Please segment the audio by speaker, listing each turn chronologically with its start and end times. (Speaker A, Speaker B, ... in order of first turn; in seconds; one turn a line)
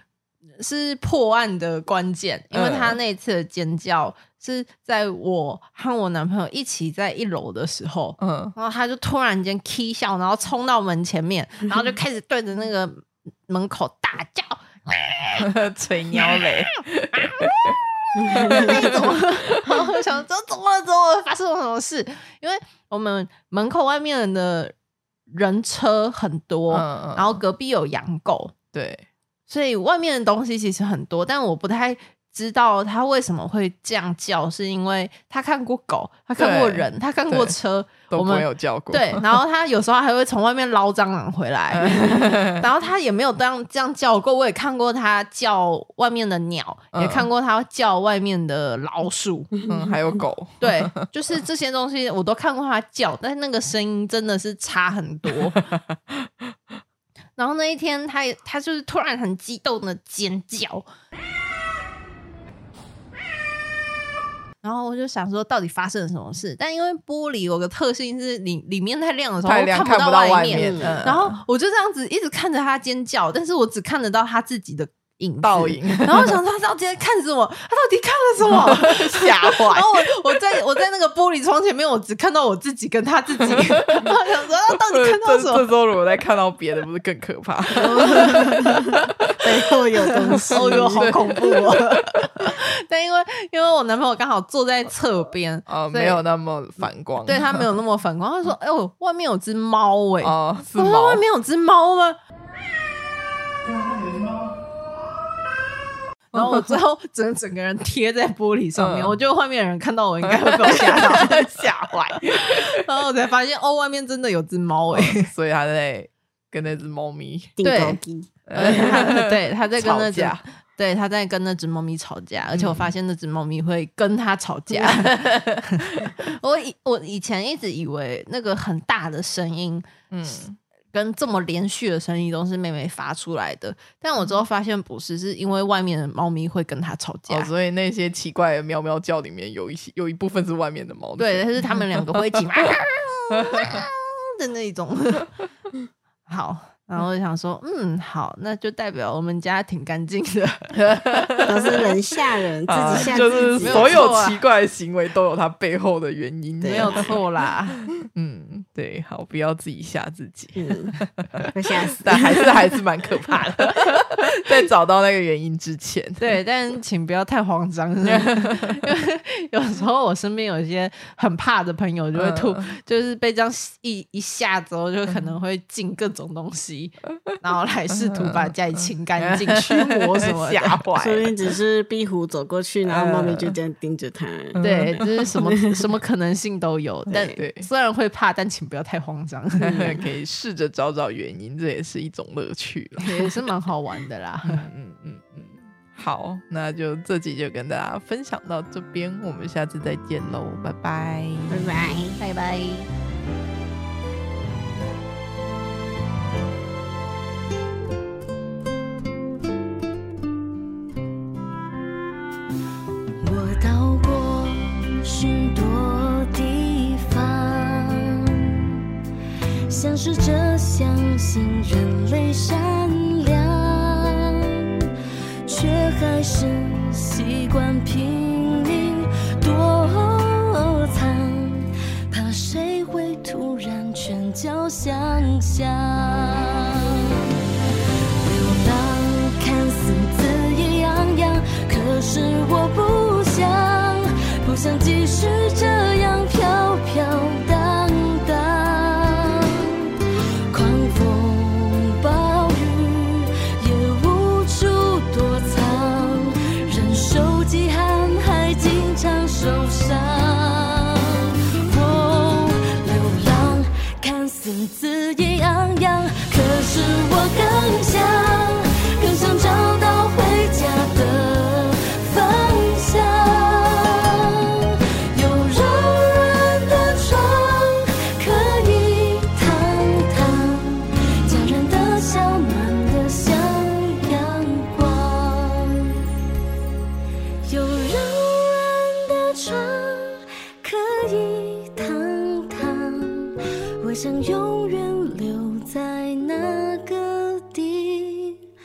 Speaker A: 0.6-15.5
Speaker B: 2.5-3.0
Speaker B: 8.2-8.5
Speaker B: 15.4-19.7
Speaker A: 16.2-16.5
Speaker A: 18.3-24.7
Speaker C: 18.3-19.0
Speaker A: 25.3-28.6
Speaker B: 26.7-27.4
Speaker B: 28.7-29.1
Speaker A: 29.5-49.5
Speaker B: 36.4-37.5
Speaker B: 38.1-39.2
Speaker B: 41.7-42.6
Speaker B: 46.9-47.3
Speaker B: 49.7-51.0
Speaker A: 50.6-55.6
Speaker B: 55.5-56.1
Speaker A: 57.4-60.9
Speaker A: 64.6-85.7
Speaker B: 69.4-71.4
Speaker C: 70.5-71.0
Speaker B: 75.4-76.3
Speaker B: 78.4-80.1
Speaker B: 83.5-84.1
Speaker B: 84.9-89.0
Speaker C: 87.7-91.0
Speaker A: 88.0-88.5
Speaker A: 90.2-96.2
Speaker B: 90.5-92.5
Speaker B: 95.7-97.6
Speaker A: 97.2-102.2
Speaker B: 100.2-101.2
Speaker B: 103.7-104.4
Speaker B: 106.3-106.7
Speaker A: 106.3-111.4
Speaker B: 108.8-109.1
Speaker B: 110.2-112.8
Speaker A: 112.3-115.3
Speaker B: 114.9-117.6
Speaker C: 117.6-118.3
Speaker A: 117.6-118.0
Speaker B: 118.5-120.4
Speaker A: 118.5-129.8
Speaker B: 122.5-122.9
Speaker B: 124.9-126.1
Speaker B: 130.1-130.6
Speaker A: 130.9-137.5
Speaker B: 137.3-142.4
Speaker A: 141.2-145.4
Speaker B: 143.3-143.8
Speaker A: 146.3-150.8
Speaker B: 150.8-151.9
Speaker C: 151.4-154.1
Speaker B: 152.7-157.2
Speaker A: 152.7-154.4
Speaker C: 156.6-157.1
Speaker A: 156.7-157.8
Speaker B: 158.0-166.3
Speaker C: 160.6-160.9
Speaker C: 161.5-162.5
Speaker A: 166.2-180.8
Speaker B: 168.1-168.8
Speaker B: 172.2-172.8
Speaker B: 178.0-181.5
Speaker C: 180.9-184.6
Speaker B: 182.8-183.6
Speaker B: 184.5-185.2
Speaker A: 184.6-189.9
Speaker B: 187.1-187.7
Speaker C: 187.1-187.4
Speaker B: 189.6-193.3
Speaker C: 189.7-190.0
Speaker A: 193.0-194.6
Speaker B: 194.4-201.7
Speaker C: 201.5-202.2
Speaker A: 202.2-202.9
Speaker D: 213.2-218.9
Speaker D: 219.7-237.4
Speaker D: 238.2-286.1
Speaker D: 287.4-298.5